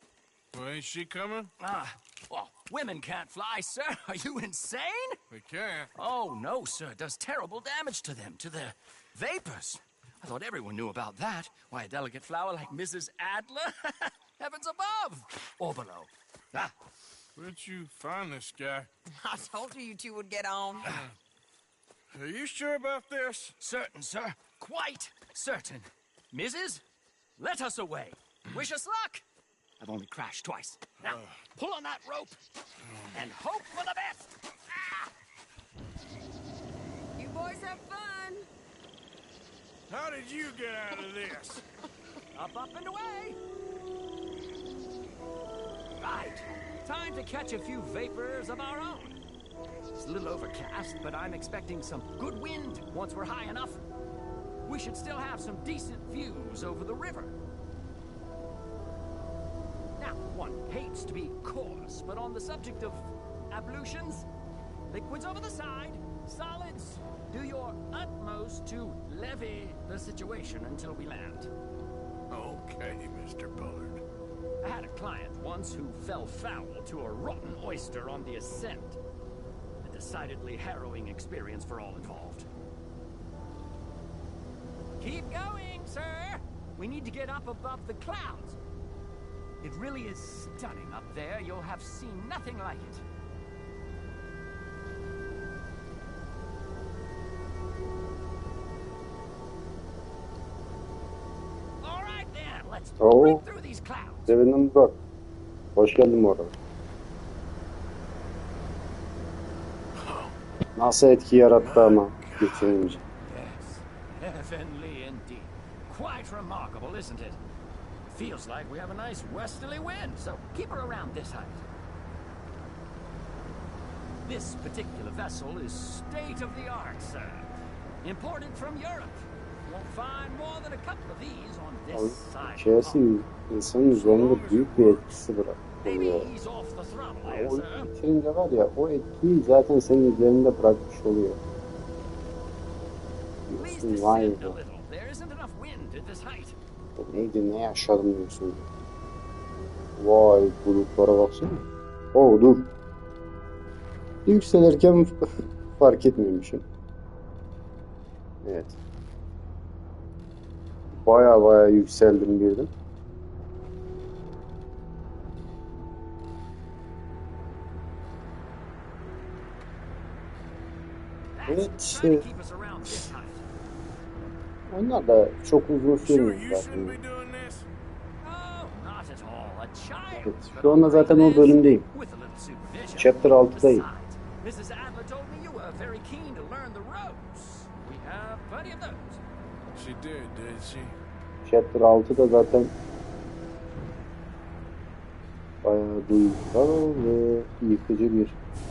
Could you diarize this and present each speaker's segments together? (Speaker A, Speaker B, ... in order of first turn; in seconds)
Speaker A: 0.5-1.5, 5.3-5.9, 17.4-18.9, 22.1-23.6, 31.0-31.4, 32.9-33.1, 39.9-41.6, 72.3-74.0, 110.0-110.3, 111.6-112.7, 133.9-135.2, 176.0-177.7, 189.8-190.9
Speaker B: 1.6-5.2, 6.0-16.7, 23.6-26.8, 27.4-29.2, 29.8-32.4, 33.1-34.9, 42.3-43.4, 46.0-49.2, 50.0-53.8, 54.6-57.4, 60.0-64.3, 64.9-71.5, 74.6-79.0, 79.8-82.5, 85.0-88.6, 89.6-93.0, 101.8-104.3, 113.3-117.4, 118.1-121.7, 124.2-127.5, 128.0-133.1, 135.8-137.9, 143.6-146.6, 171.3-173.4, 178.2-189.2
Speaker C: 19.2-20.9, 37.2-38.5
Speaker D: 103.0-103.4, 104.3-105.0, 105.8-106.5, 110.8-113.0, 131.9-136.3, 137.2-141.4, 143.5-144.6, 147.0-148.7, 150.0-152.7, 154.3-156.7, 158.4-158.8, 160.9-162.7, 171.5-172.2, 174.7-177.0, 180.1-181.9, 183.0-183.9, 191.4-192.7, 195.6-198.4